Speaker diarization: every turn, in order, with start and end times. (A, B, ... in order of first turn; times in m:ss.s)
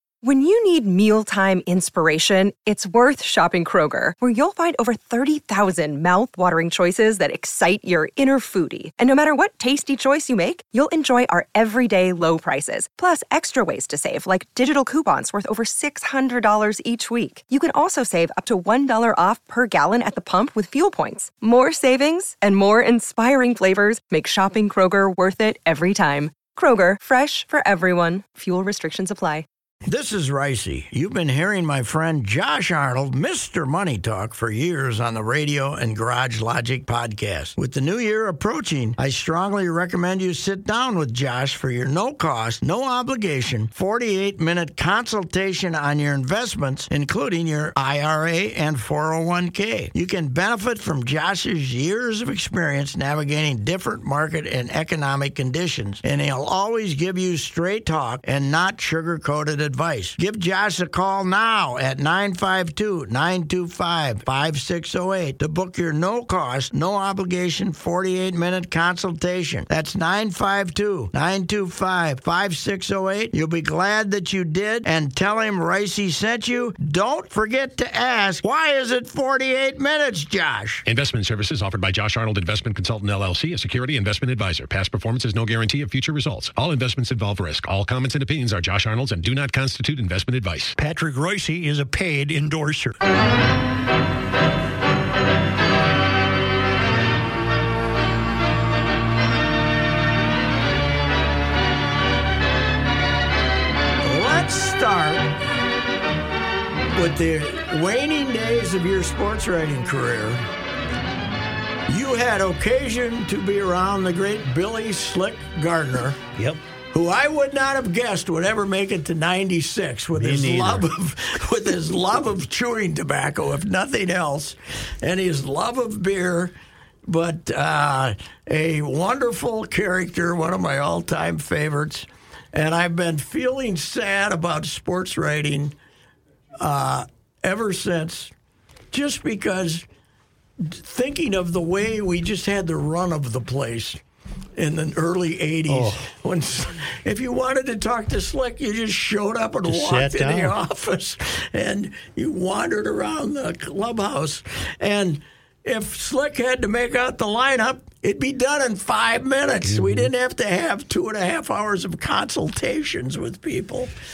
0:00.2-0:29.4 A
0:29.8-1:20.8 B
1:20.8-1:30.8 C
1:30.8-1:33.0 D
1:44.0-1:45.3 B
1:46.9-1:50.4 B
1:51.9-1:56.2 B
1:56.9-2:06.5 B
2:00.2-2:00.9 D
2:07.1-2:15.7 B
2:16.6-2:18.3 B
2:18.9-2:19.8 B
2:20.6-2:24.0 B
2:24.6-2:43.9 B
2:25.7-2:26.0 D
2:29.7-2:30.6 D
2:39.6-2:40.1 D